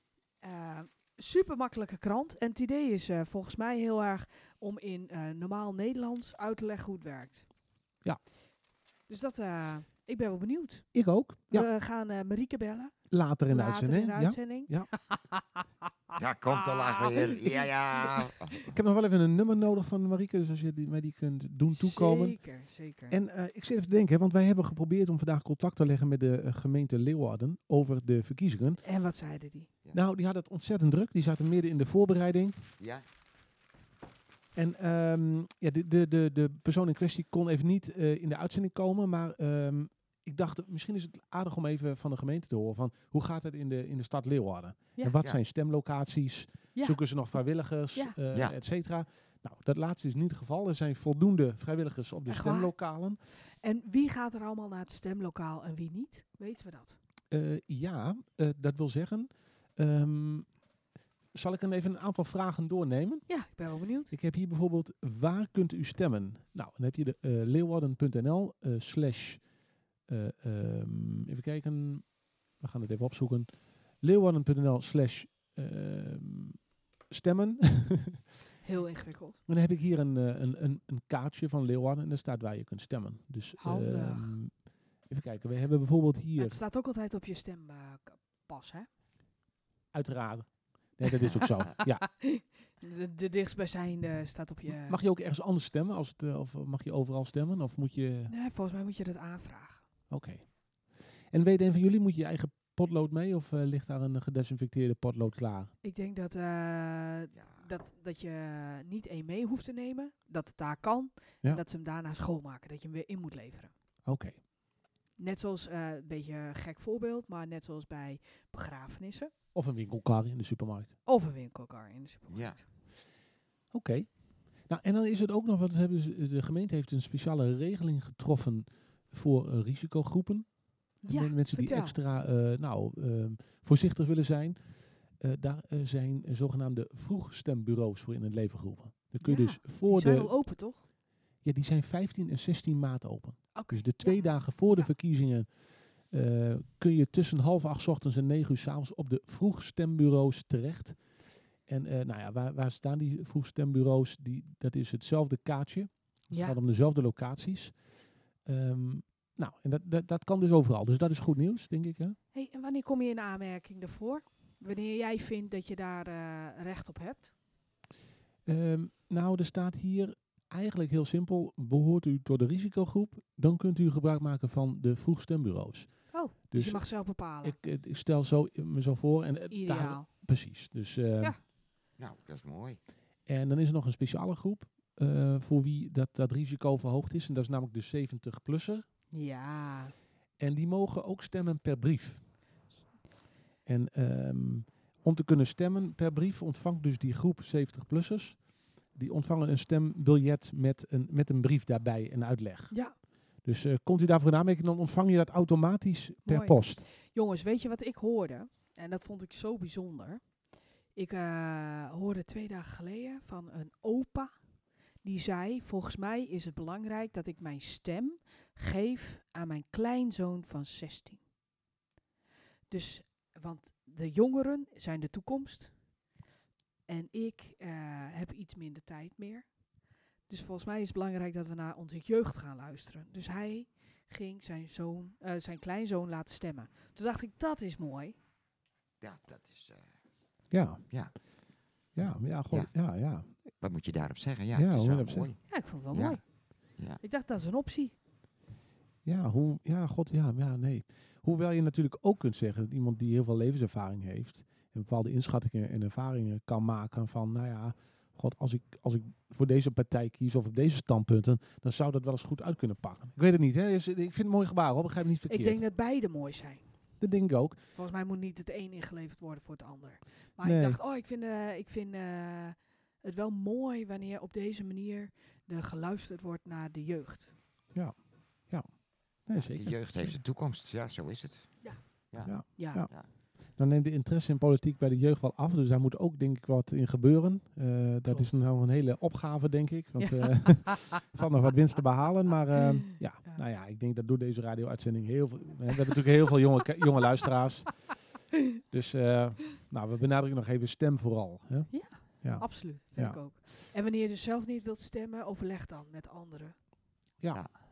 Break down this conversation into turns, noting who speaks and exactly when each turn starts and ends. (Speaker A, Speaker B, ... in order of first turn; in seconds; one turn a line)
Speaker A: 0.4-7.5
Speaker A: 9.1-18.3
Speaker B: 10.9-11.7
Speaker B: 13.1-14.9
Speaker C: 16.1-18.7
Speaker B: 18.7-22.4
Speaker A: 21.7-23.2
Speaker B: 23.1-28.8
Speaker A: 28.8-29.7
Speaker B: 29.9-32.6
Speaker C: 32.8-33.0
Speaker B: 34.5-53.2
Speaker A: 46.7-47.0
Speaker C: 48.3-48.6
Speaker A: 52.3-52.7
Speaker A: 53.6-57.0
Speaker B: 57.3-60.6
Speaker B: 61.3-63.5
Speaker A: 63.3-64.1
Speaker B: 64.1-69.4
Speaker B: 70.1-78.2
Speaker A: 78.6-79.4
Speaker B: 79.5-86.6
Speaker A: 83.6-84.4
Speaker A: 86.4-88.9
Speaker B: 89.9-92.1
Speaker A: 91.8-95.0
Speaker B: 94.7-98.3
Speaker A: 98.3-99.8
Speaker B: 100.1-100.5
Speaker B: 101.3-105.7
Speaker A: 105.8-113.7
Speaker C: 107.3-107.7
Speaker B: 114.0-114.4
Speaker A: 115.2-119.3
Speaker B: 119.5-120.9
Speaker A: 121.0-122.6
Speaker C: 122.3-122.6
Speaker B: 123.7-134.6
Speaker A: 131.0-132.0
Speaker B: 135.1-140.4
Speaker A: 139.2-140.8
Speaker B: 141.4-145.5
Speaker A: 143.5-144.9
Speaker B: 146.1-151.1
Speaker B: 151.7-157.8
Speaker A: 156.3-156.6
Speaker B: 158.4-162.2
Speaker A: 162.3-167.3
Speaker B: 168.4-181.3
Speaker A: 176.1-177.6
Speaker A: 179.5-180.1
Speaker C: 182.0-182.8
Speaker B: 183.3-188.8
Speaker A: 189.1-189.9
Speaker B: 190.4-192.2
Speaker B: 193.7-206.8
Speaker A: 206.2-210.4
Speaker A: 210.9-214.4
Speaker A: 215.0-221.2
Speaker A: 222.7-225.8
Speaker A: 226.9-238.2
Speaker C: 239.0-239.9
Speaker B: 240.5-240.8
Speaker B: 241.9-243.3
Speaker C: 242.5-242.8
Speaker C: 243.3-246.2
Speaker B: 244.5-245.3
Speaker A: 245.5-247.9
Speaker C: 246.7-247.0
Speaker B: 249.0-265.6
Speaker A: 265.3-266.6
Speaker B: 267.0-267.6
Speaker A: 267.7-277.3
Speaker B: 270.4-270.8
Speaker B: 277.7-280.2
Speaker C: 279.3-283.1
Speaker A: 281.6-282.9
Speaker B: 282.2-283.0
Speaker B: 283.5-297.9
Speaker A: 288.1-288.4
Speaker A: 290.0-291.0
Speaker B: 298.7-303.2
Speaker A: 301.7-306.5